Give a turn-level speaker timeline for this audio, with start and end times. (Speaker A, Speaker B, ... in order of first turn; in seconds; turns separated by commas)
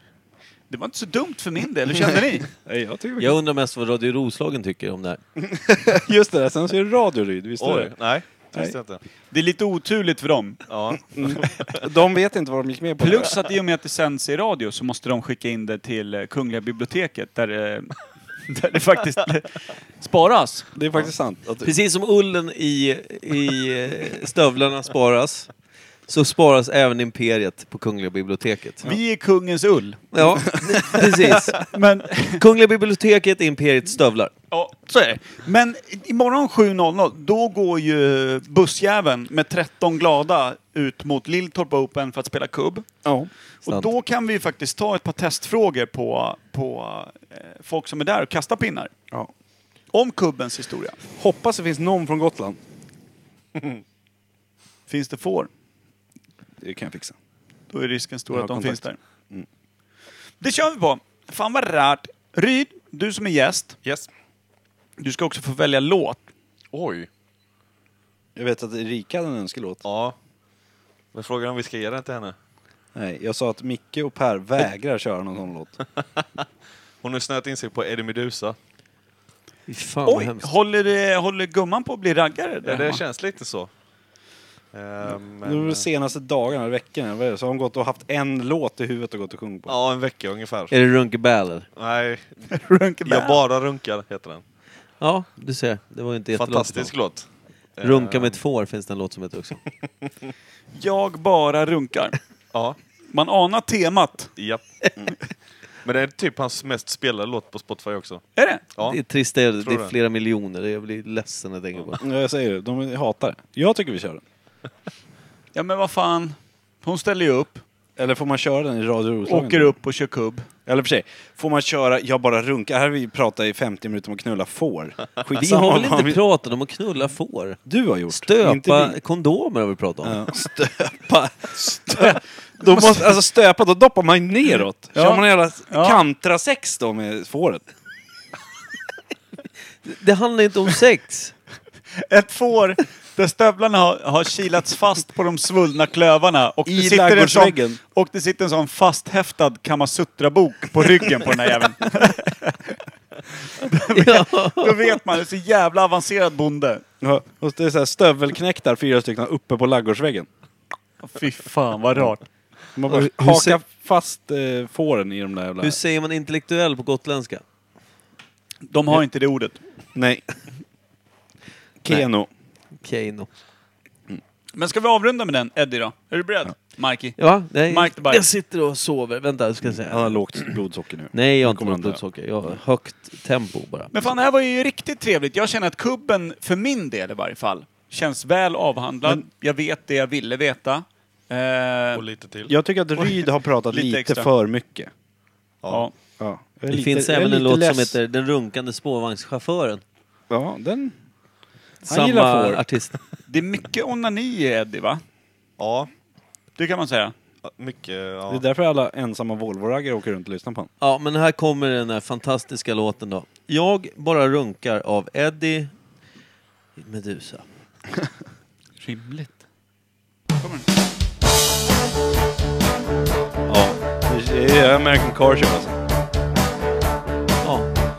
Speaker A: 0.7-2.5, Speaker B: 2.6-3.4, Speaker C: 3.2-5.2, Speaker B: 5.4-7.9, Speaker D: 7.6-9.0, Speaker B: 8.4-8.8, Speaker A: 9.3-10.6, Speaker D: 10.7-11.8, Speaker B: 11.1-13.3, Speaker A: 13.0-17.9, Speaker A: 18.5-20.7, Speaker B: 20.8-21.7, Speaker C: 21.6-25.5, Speaker C: 26.1-28.9, Speaker A: 28.8-30.2, Speaker C: 30.1-31.7, Speaker A: 31.5-32.4, Speaker C: 32.3-34.3, Speaker A: 34.5-42.9, Speaker B: 43.0-43.3, Speaker A: 43.6-48.9, Speaker A: 49.9-51.0, Speaker B: 51.2-52.6, Speaker A: 54.9-55.5, Speaker B: 56.6-57.1, Speaker A: 57.7-59.0, Speaker B: 58.3-59.5, Speaker A: 60.4-63.8, Speaker D: 63.8-64.1, Speaker A: 65.0-66.2, Speaker D: 66.7-67.1, Speaker B: 68.4-69.8, Speaker D: 69.8-70.1, Speaker D: 71.1-72.3, Speaker B: 73.0-75.8, Speaker D: 77.0-78.6, Speaker C: 79.7-80.5, Speaker A: 80.1-83.0, Speaker D: 82.6-83.7, Speaker D: 84.7-85.8, Speaker B: 85.4-89.7, Speaker D: 89.7-90.7, Speaker C: 90.7-91.7, Speaker D: 91.8-92.5, Speaker A: 92.5-93.4, Speaker D: 93.0-94.4, Speaker C: 95.0-96.9, Speaker D: 96.3-97.3, Speaker D: 97.8-98.4, Speaker C: 97.8-99.6, Speaker A: 100.8-102.2, Speaker A: 103.1-104.3, Speaker D: 104.4-104.6, Speaker D: 105.8-108.2, Speaker A: 108.4-108.6, Speaker C: 108.8-112.0, Speaker D: 109.6-109.9, Speaker B: 112.0-114.2, Speaker A: 115.5-117.6, Speaker B: 118.0-119.8, Speaker A: 119.3-120.5, Speaker B: 120.7-126.2, Speaker C: 125.4-130.2, Speaker B: 127.7-129.0, Speaker B: 130.0-137.6, Speaker A: 131.9-133.1, Speaker A: 134.9-136.0, Speaker C: 139.8-141.3, Speaker A: 142.1-152.8, Speaker B: 146.7-147.8, Speaker A: 153.6-156.8, Speaker C: 153.9-155.0, Speaker B: 157.0-160.3, Speaker A: 161.0-162.3, Speaker B: 162.8-165.8, Speaker C: 162.9-163.6, Speaker C: 165.6-167.4, Speaker A: 168.7-169.6, Speaker B: 169.9-170.2, Speaker B: 171.8-172.3, Speaker C: 172.8-173.3, Speaker A: 174.6-178.3, Speaker C: 177.2-180.5, Speaker B: 179.7-182.0, Speaker C: 181.1-183.9, Speaker A: 183.9-192.1, Speaker D: 191.9-192.5, Speaker B: 192.5-194.9, Speaker A: 193.0-194.3, Speaker B: 196.2-198.0, Speaker C: 196.7-199.8, Speaker B: 200.3-200.9, Speaker C: 201.8-202.9, Speaker B: 201.9-202.7, Speaker A: 203.3-205.0, Speaker D: 205.6-205.9, Speaker A: 206.6-207.1, Speaker D: 207.4-208.4, Speaker B: 208.3-210.7, Speaker C: 210.8-215.7, Speaker C: 216.8-217.4, Speaker A: 218.8-219.4, Speaker A: 220.4-220.7, Speaker B: 223.5-225.8